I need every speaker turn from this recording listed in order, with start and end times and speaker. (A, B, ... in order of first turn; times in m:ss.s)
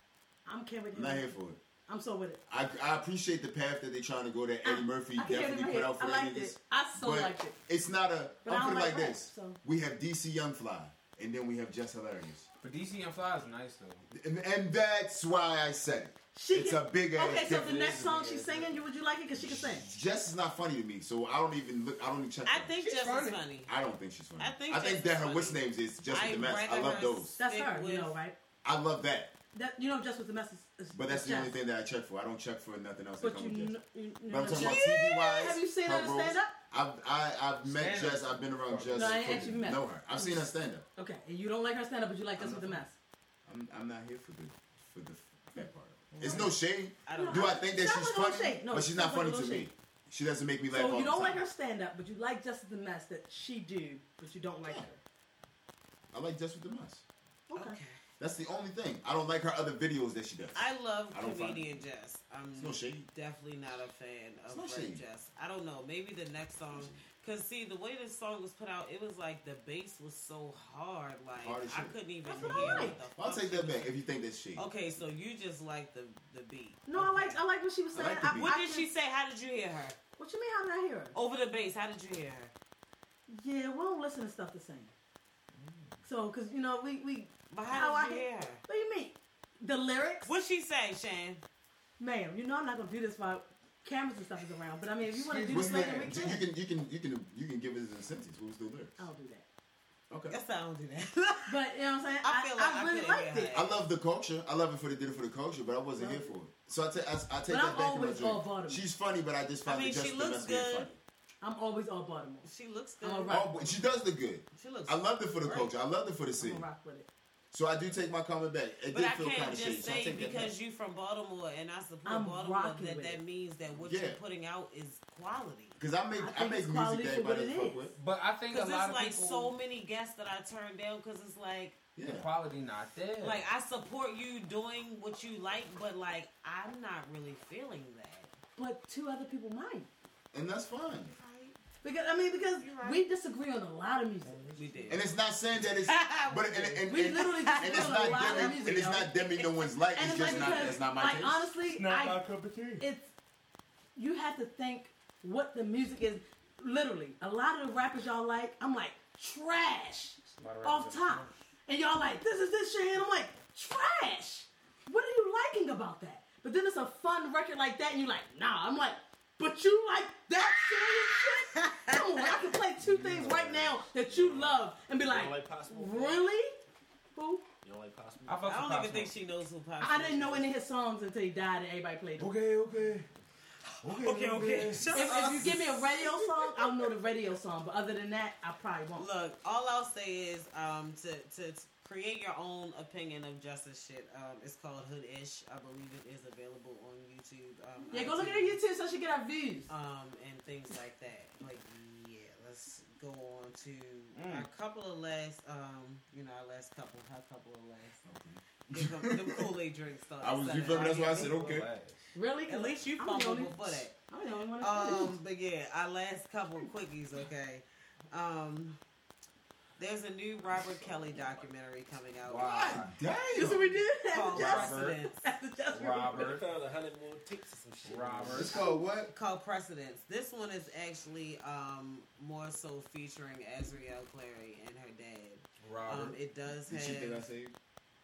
0:00.5-0:01.3 A
0:00.9-0:01.6 B
0:01.9-0:02.4 A
0:02.5-0:12.5 B
0:04.6-0:07.6 A
0:08.4-0:09.6 A
0:12.6-0:14.0 C
0:14.1-0:17.8 B
0:16.4-0:19.9 A
0:17.3-0:18.8 C
0:19.4-0:22.8 B
0:22.4-0:23.7 D
0:22.8-0:23.4 C
0:23.7-0:27.4 B
0:24.4-0:28.2 D
0:27.4-0:28.4 A
0:28.6-0:29.4 B
0:29.5-0:31.5 A
0:30.9-0:33.8 B
0:33.2-0:36.6 A
0:34.3-0:40.8 B
0:34.5-0:35.4 C
0:37.6-0:39.7 C
0:38.9-0:43.0 A
0:42.4-0:42.9 B
0:43.4-0:51.4 B
0:46.1-0:46.6 C
0:47.1-0:47.6 D
0:47.1-0:49.7 A
0:50.7-0:55.0 A
0:56.1-0:57.0 B
0:57.5-0:57.8 A
0:57.6-0:58.0 D
0:58.2-1:01.8 B
1:00.6-1:13.9 D
1:02.6-1:03.1 B
1:04.5-1:05.0 B
1:06.7-1:07.0 B
1:11.4-1:14.7 B
1:12.3-1:13.0 A
1:14.6-1:16.8 D
1:16.9-1:18.9 A
1:17.9-1:18.5 B
1:18.4-1:20.0 D
1:20.2-1:21.2 A
1:21.1-1:22.5 D
1:23.3-1:24.9 A
1:25.6-1:26.0 C
1:26.0-1:30.3 A
1:27.5-1:28.6 D
1:30.2-1:31.4 D
1:32.0-1:36.4 A
1:35.0-1:36.2 C
1:35.5-1:39.0 B
1:39.0-1:39.5 A
1:40.1-1:40.4 B
1:40.3-1:41.6 D
1:41.5-1:43.6 A
1:42.2-1:43.8 D
1:43.5-1:51.0 B
1:46.0-1:46.4 A
1:47.5-1:48.8 A
1:49.6-1:50.9 D
1:51.4-1:52.5 A
1:52.4-1:53.5 D
1:53.0-1:53.5 A
1:53.3-1:56.7 B
1:54.5-1:55.7 D
1:56.4-1:57.1 A
1:57.5-2:00.6 B
1:58.9-2:05.8 D
2:02.1-2:03.2 A
2:03.8-2:04.2 B
2:05.8-2:07.9 B
2:06.2-2:07.9 A
2:08.0-2:09.5 C
2:08.5-2:11.8 D
2:12.0-2:12.3 B
2:12.0-2:13.4 C
2:13.2-2:18.4 D
2:18.6-2:19.9 A
2:20.3-2:21.2 B
2:21.2-2:21.6 D
2:21.8-2:24.4 A
2:22.6-2:23.0 D
2:24.2-2:25.0 C
2:24.6-2:25.0 D
2:24.9-2:31.5 B
2:25.6-2:29.6 D
2:26.9-2:29.2 A
2:29.9-2:32.2 A
2:30.1-2:30.6 C
2:31.6-2:32.9 C
2:32.8-2:33.1 A
2:34.0-2:56.6 A
2:40.4-2:41.3 C
2:51.6-2:52.4 D
2:52.8-2:53.8 C
2:54.1-2:56.3 E
2:57.2-2:57.4 A
2:57.6-2:58.7 E
2:58.3-2:59.1 C
2:58.5-3:00.5 D
2:59.8-3:02.3 A
3:02.2-3:03.1 C
3:03.8-3:05.6 C
3:03.9-3:06.6 D
3:04.9-3:09.1 A
3:09.0-3:18.6 D
3:17.9-3:19.7 A
3:19.7-3:28.0 D
3:24.2-3:24.5 C
3:28.0-3:29.5 B
3:28.7-3:31.4 D
3:30.2-3:31.7 B
3:30.6-3:32.1 C
3:32.2-3:35.2 A
3:32.5-3:34.0 D
3:34.6-3:38.8 D
3:39.8-3:42.8 D
3:42.2-3:43.0 C
3:42.6-3:43.8 B
3:43.3-3:46.2 A
3:44.1-3:45.2 D
3:44.3-3:45.0 C
3:45.7-3:46.5 C
3:46.1-3:48.7 E
3:47.8-3:49.1 C
3:48.3-3:49.0 B
3:49.1-3:57.2 D
3:55.6-3:56.2 C
3:56.7-3:57.5 B